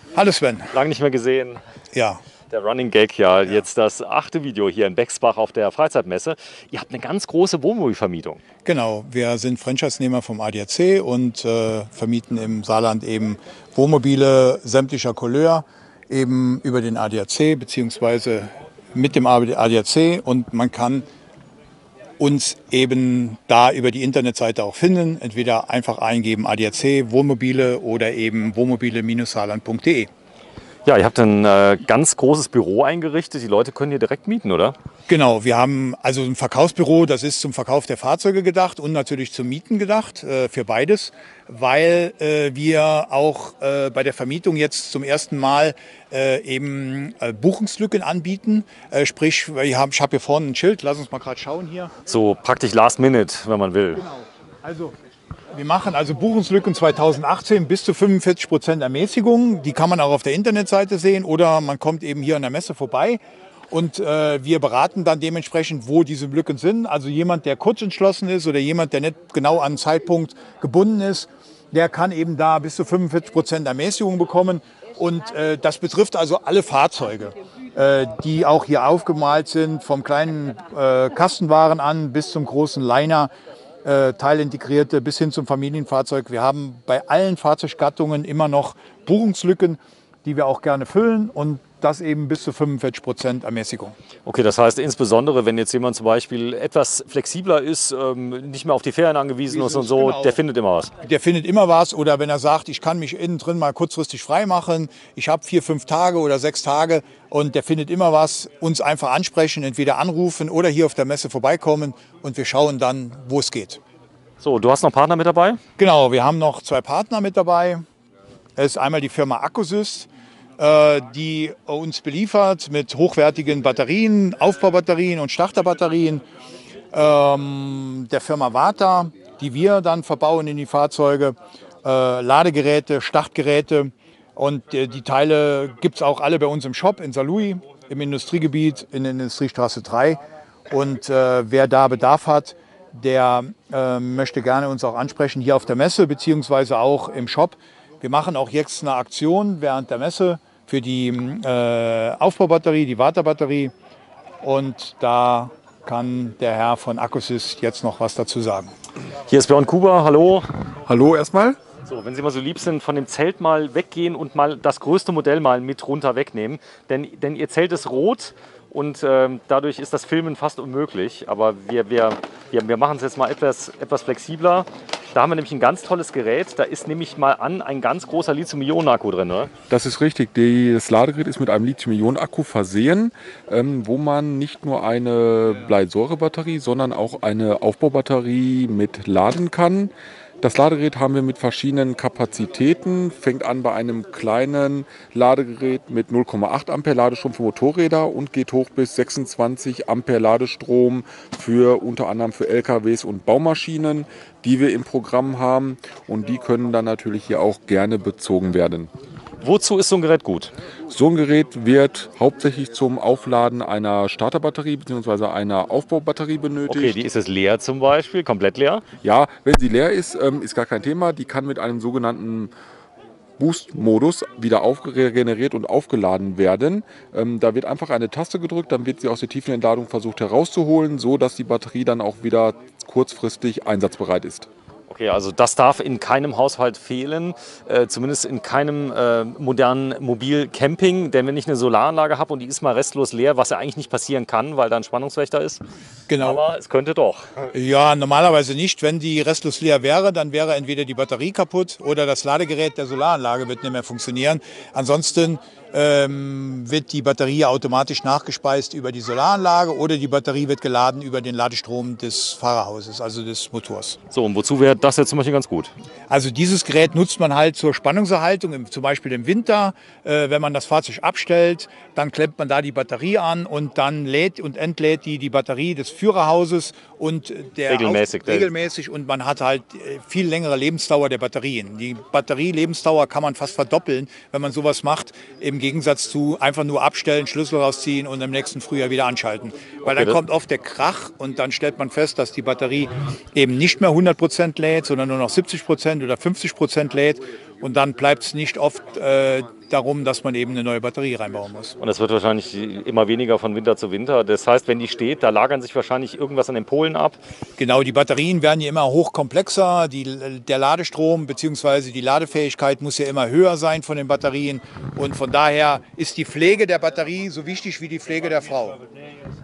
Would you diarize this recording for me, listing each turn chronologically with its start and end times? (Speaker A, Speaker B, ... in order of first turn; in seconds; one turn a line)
Speaker A: 0.1-0.8
Speaker B: 0.7-1.6
Speaker A: 1.9-2.2
Speaker B: 2.5-8.4
Speaker A: 8.7-21.1
Speaker A: 22.2-30.1
Speaker B: 30.9-34.8
Speaker A: 35.1-51.9
Speaker B: 52.1-54.0
Speaker A: 54.0-54.9
Speaker A: 55.5-83.3
Speaker A: 83.8-94.0
Speaker B: 94.3-100.9
Speaker A: 99.5-100.4
Speaker A: 101.0-113.8
Speaker B: 114.4-115.6
Speaker A: 115.8-117.8
Speaker A: 118.6-126.2
Speaker A: 126.9-153.7
Speaker A: 154.4-158.7
Speaker B: 159.3-160.5
Speaker C: 160.9-161.6
Speaker B: 161.9-179.5
Speaker C: 179.7-208.9
Speaker B: 209.4-210.5
Speaker C: 210.9-217.0
Speaker B: 216.7-218.8
Speaker C: 219.0-222.5
Speaker C: 223.4-234.5
Speaker B: 234.9-245.6
Speaker A: 246.1-246.4
Speaker B: 246.2-247.5
Speaker A: 247.5-264.0
Speaker B: 264.1-265.7
Speaker A: 266.1-301.8
Speaker B: 277.7-278.5
Speaker B: 289.9-290.2
Speaker B: 301.8-307.2
Speaker A: 307.6-318.8